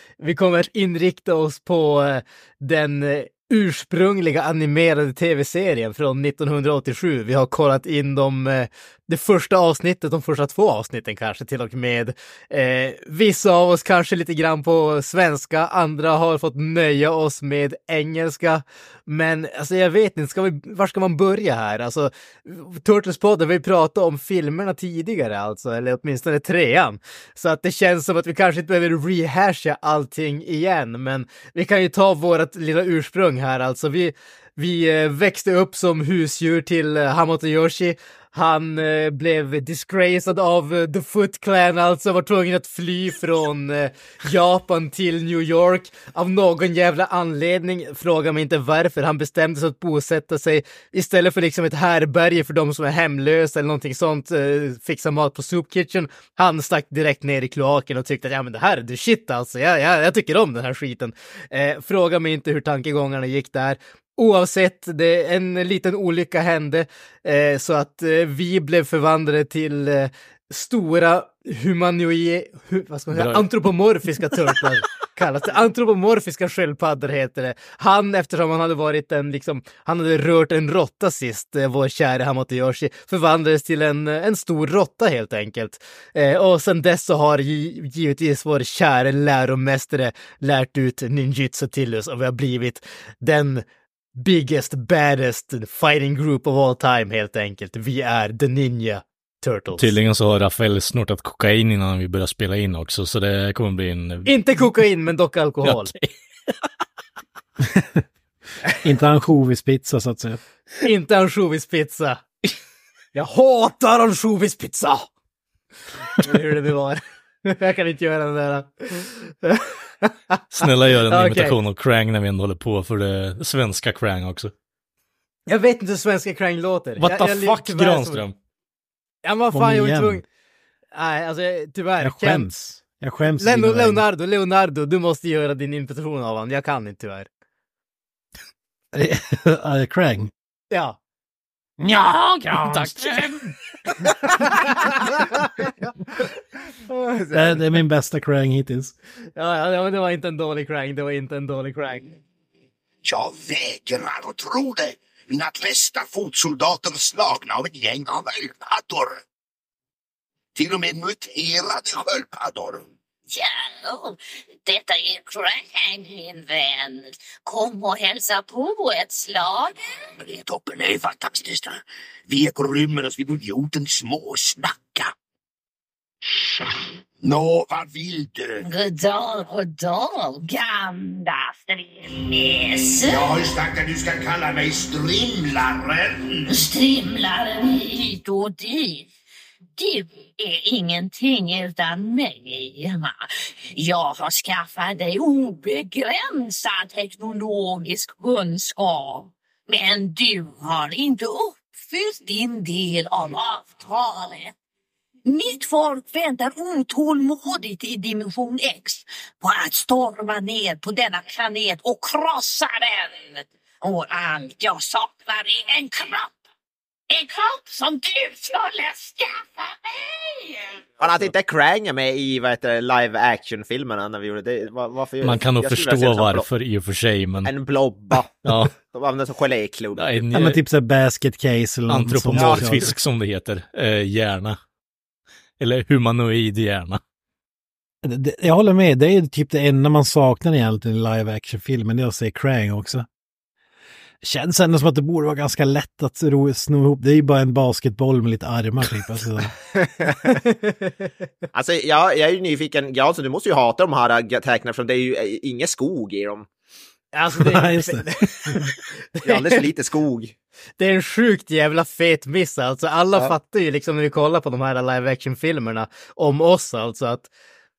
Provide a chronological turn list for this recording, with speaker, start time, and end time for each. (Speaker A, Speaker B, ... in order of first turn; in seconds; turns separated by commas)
Speaker A: 0.2-93.6, Speaker B: 73.1-73.5, Speaker A: 94.2-99.9, Speaker B: 99.8-104.3, Speaker A: 104.3-105.9, Speaker B: 105.6-106.1, Speaker C: 107.7-108.0, Speaker C: 108.8-110.4, Speaker A: 110.8-112.2, Speaker A: 113.1-115.1, Speaker A: 116.2-121.6, Speaker B: 120.5-124.5, Speaker A: 125.5-128.2, Speaker B: 127.0-128.3, Speaker A: 129.2-130.2, Speaker C: 129.5-130.2, Speaker A: 130.9-132.5, Speaker C: 132.0-134.0, Speaker A: 133.4-137.3, Speaker C: 138.9-140.3, Speaker A: 140.7-141.0, Speaker C: 141.8-143.3, Speaker B: 142.7-143.3, Speaker A: 146.9-147.2, Speaker C: 147.3-148.9, Speaker A: 149.4-152.2, Speaker D: 153.0-159.2, Speaker D: 160.6-162.9, Speaker E: 163.3-169.8, Speaker D: 170.2-175.1, Speaker D: 176.4-176.7, Speaker D: 177.2-178.7, Speaker E: 178.6-183.4, Speaker D: 183.1-186.6, Speaker E: 186.5-189.1, Speaker E: 189.8-193.2, Speaker E: 193.8-204.5, Speaker E: 205.3-216.4, Speaker E: 217.1-220.8, Speaker F: 221.0-226.5, Speaker B: 225.2-227.5, Speaker F: 227.4-230.2, Speaker B: 228.4-228.7, Speaker B: 230.0-230.6, Speaker C: 230.3-232.9, Speaker B: 231.9-234.6, Speaker F: 232.4-232.9, Speaker B: 235.6-237.0, Speaker C: 238.0-243.1, Speaker C: 244.2-249.6, Speaker A: 250.3-251.1, Speaker F: 251.5-256.5, Speaker A: 257.1-259.6, Speaker C: 257.4-258.6, Speaker F: 259.2-260.4, Speaker A: 260.8-267.3